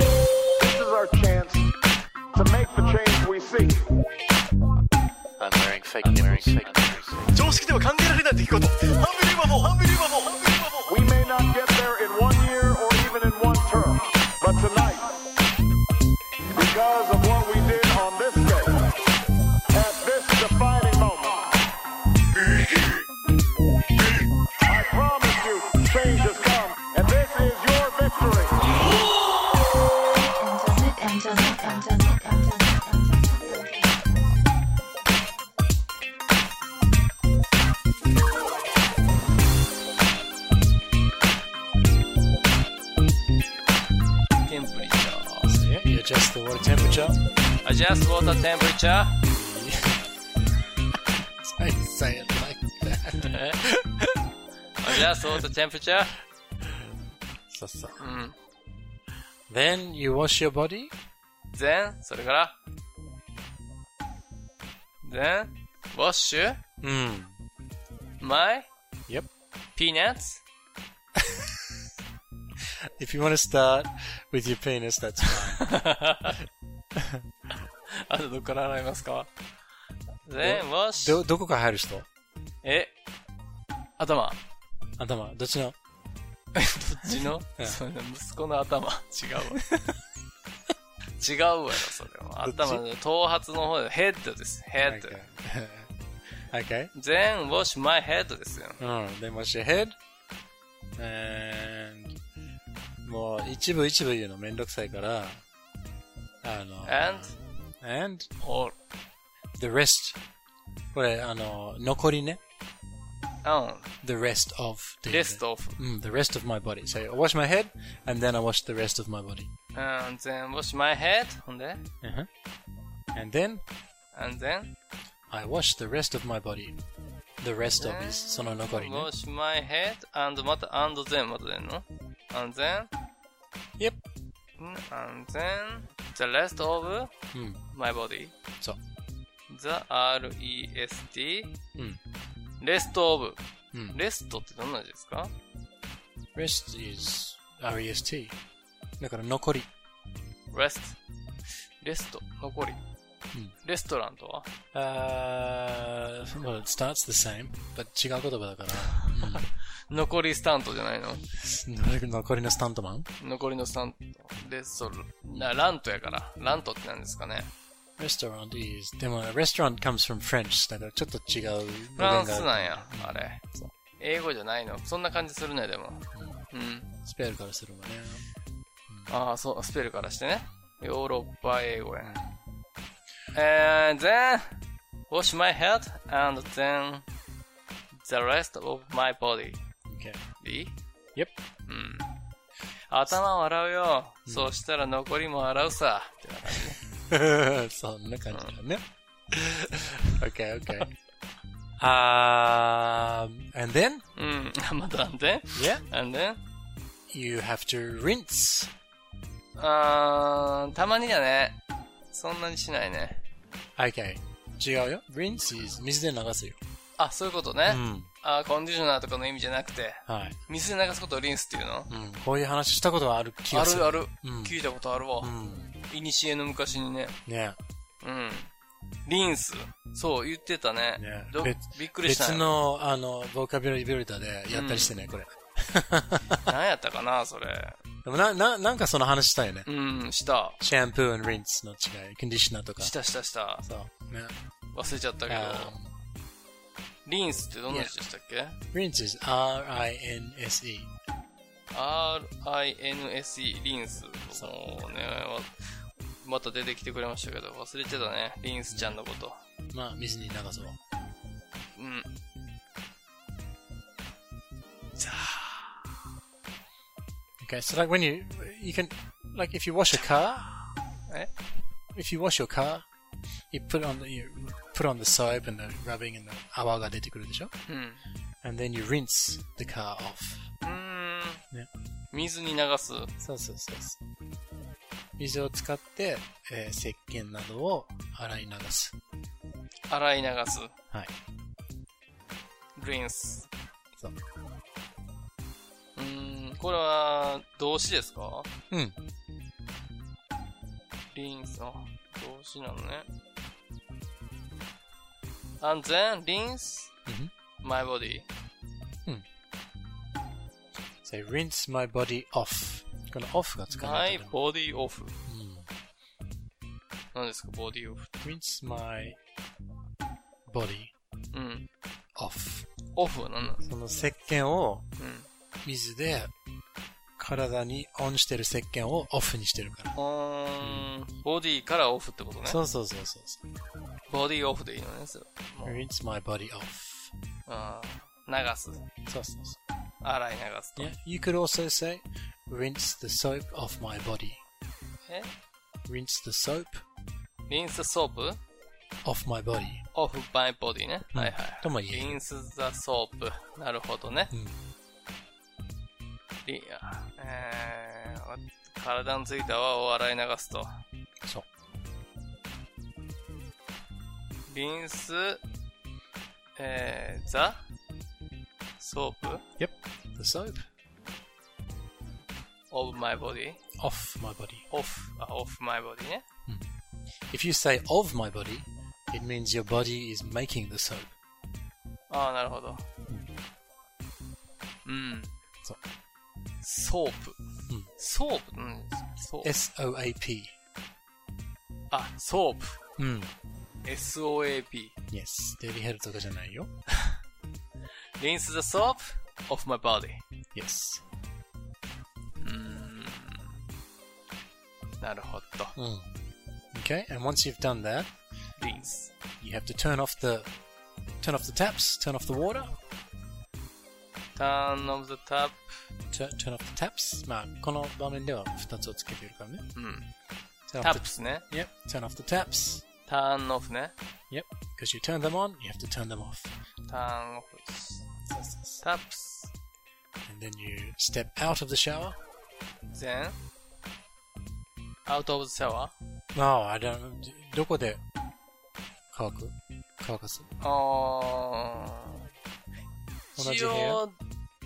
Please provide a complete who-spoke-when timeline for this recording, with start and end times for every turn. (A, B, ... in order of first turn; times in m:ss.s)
0:00.6-0:01.7 A
0:02.3-0:03.8 A
0:05.4-0:07.2 B
0:05.4-0:10.9 C
0:10.9-0:15.2 A
0:16.5-0:18.9 A
0:19.7-0:21.5 A
0:24.6-0:28.6 A
0:30.2-0:34.4 D
0:44.4-0:45.6 E
0:45.4-0:47.2 B
0:47.6-0:49.2 E
0:49.2-0:50.1 B
0:51.4-0:53.3 B
0:53.2-0:54.2 E
0:54.8-0:56.2 E
0:54.9-0:55.4 B
0:56.6-0:56.9 B
0:57.5-0:58.1 B
0:58.0-0:58.3 E
0:59.5-1:00.9 B
1:01.5-1:02.6 E
1:05.0-1:06.6 E
1:06.8-1:07.4 B
1:08.2-1:08.7 E
1:09.8-1:10.4 E
1:11.2-1:11.4 B
1:13.0-1:15.8 B
1:15.5-1:16.4 E
1:16.9-1:17.2 B
1:17.9-1:19.3 E
1:20.2-1:21.2 E
1:20.4-1:22.1 B
1:22.6-1:22.9 E
1:24.0-1:24.4 E
1:25.0-1:25.7 B
1:26.5-1:29.6 E
1:29.5-1:29.8 B
1:31.2-1:35.2 E
1:32.4-1:32.8 B
1:34.8-1:35.9 B
1:36.5-1:36.9 B
1:36.9-1:38.8 E
1:38.8-1:40.0 B
1:41.0-1:42.2 B
1:43.0-1:45.4 B
1:46.4-1:48.3 B
1:46.8-1:47.4 E
1:48.4-1:48.7 E
1:49.6-1:50.2 B
1:50.9-1:52.4 B
1:53.4-1:53.9 E
1:54.0-1:59.5 B
1:55.1-1:55.8 E
1:59.7-2:01.9 E
2:02.0-2:02.3 B
2:03.1-2:03.6 B
2:04.1-2:04.7 E
2:05.3-2:06.8 B
2:07.4-2:09.1 B
2:07.8-2:12.9 E
2:14.6-2:17.1 E
2:17.3-2:17.6 B
2:17.7-2:18.3 E
2:19.5-2:21.6 E
2:22.6-2:23.4 E
2:23.7-2:24.0 B
2:23.9-2:25.3 E
2:26.3-2:28.4 B
2:29.0-2:29.7 B
2:30.5-2:31.0 E
2:31.8-2:32.8 E
2:33.6-2:34.5 E
2:34.7-2:39.4 B
2:39.9-2:41.2 E
2:41.3-2:43.1 B
2:43.2-2:47.5 E
2:48.0-2:53.2 B
2:52.0-2:56.9 E
2:56.1-2:56.4 B
2:57.0-2:58.3 B
2:59.1-3:02.2 E
3:02.0-3:02.4 B
3:03.3-3:07.0 E
3:07.9-3:09.6 E
3:09.9-3:10.2 B
3:10.4-3:10.8 E
3:11.7-3:12.1 E
3:12.9-3:16.8 E
3:17.0-3:20.9 B
3:18.3-3:18.6 E
3:21.8-3:24.0 B
3:24.1-3:26.4 E
3:25.5-3:25.8 B
3:27.1-3:28.7 B
3:29.6-3:33.2 E
3:33.8-3:36.6 B
3:37.0-3:41.9 E
3:37.6-3:38.1 B
3:40.0-3:40.4 B
3:41.9-3:44.6 B
3:43.5-3:45.3 E
3:45.2-3:45.7 B
3:45.9-3:47.2 E
3:47.2-3:47.6 B
3:48.0-3:48.5 E
3:49.0-3:52.5 E
3:50.9-3:56.5 B
3:54.5-3:55.0 E
3:56.4-3:57.8 E
3:58.0-3:59.7 B
3:59.6-4:00.6 E
4:00.6-4:02.9 B
4:02.8-4:03.6 E
4:03.6-4:04.3 B
4:04.7-4:05.7 E
4:05.3-4:05.9 B
4:07.0-4:08.6 E
4:07.7-4:07.9 B
4:08.7-4:10.9 B
4:11.7-4:19.4 E
4:18.7-4:19.0 B
4:19.7-4:20.8 B
4:21.7-4:22.1 E
4:25.0-4:25.8 E
4:27.4-4:30.5 B
4:31.9-4:32.8 B
4:33.5-4:37.5 B
4:37.7-4:38.0 E
4:38.4-4:40.5 B
4:40.6-4:41.4 E
4:42.1-4:43.1 E
4:43.2-4:44.0 B
4:45.2-4:48.9 B
4:49.9-4:50.7 E
4:52.8-4:53.5 E
4:56.0-4:58.5 E
4:58.7-4:59.0 B
5:01.1-5:03.1 E
5:05.6-5:06.9 E
5:07.0-5:07.3 B
5:07.6-5:08.3 E
5:11.0-5:14.4 B
5:13.7-5:15.1 E
5:15.3-5:15.7 B
5:17.1-5:18.1 E
5:18.2-5:19.2 B
5:20.5-5:20.9 B
5:21.3-5:21.7 E
5:22.2-5:22.7 B
5:22.9-5:23.6 E
5:23.6-5:24.9 B
5:25.0-5:25.3 E
5:25.6-5:26.3 B
5:27.2-5:30.0 B
5:29.9-5:32.6 E
5:30.6-5:30.9 B
5:32.4-5:33.4 B
5:34.1-5:35.8 E
5:35.6-5:37.1 B
5:37.5-5:38.9 E
5:39.0-5:39.6 B
5:40.0-5:40.9 E
5:40.8-5:44.4 B
5:45.8-5:46.8 B
5:47.5-5:48.4 E
5:49.0-5:49.8 B
5:49.9-5:54.3 E
5:51.1-5:52.2 B
5:54.3-5:54.6 B
5:56.4-6:00.8 E
6:04.5-6:05.4 E
6:06.6-6:07.6 E
6:08.8-6:09.4 E
6:09.6-6:10.6 B
6:12.7-6:13.6 E
6:13.8-6:14.7 B
6:14.7-6:16.2 E
6:17.3-6:21.1 B
6:22.1-6:22.8 E
6:24.8-6:25.4 E
6:26.6-6:27.4 E
6:27.9-6:29.5 E
6:29.4-6:30.5 B
6:31.9-6:32.8 E
6:33.0-6:33.3 B
6:33.8-6:34.9 E
6:35.1-6:36.7 B
6:38.2-6:40.2 E
6:40.5-6:41.0 B
6:42.4-6:43.6 E
6:45.0-6:45.8 E
6:45.8-6:46.1 B
6:46.7-6:48.1 B
6:48.6-6:49.1 E
6:49.4-6:50.5 B
6:51.2-6:52.8 B
6:54.3-6:55.6 E
6:56.1-6:59.7 B
6:59.7-7:00.1 E
7:00.7-7:02.8 B
7:00.8-7:01.4 E
7:03.0-7:03.9 E
7:04.3-7:06.5 B
7:06.8-7:08.1 E
7:08.3-7:08.8 B
7:08.8-7:09.5 E
7:10.2-7:12.2 B
7:12.9-7:13.4 E
7:15.0-7:15.9 E
7:16.3-7:18.0 B
7:19.1-7:20.5 B
7:20.6-7:22.3 E
7:23.4-7:24.0 B
7:23.4-7:24.2 E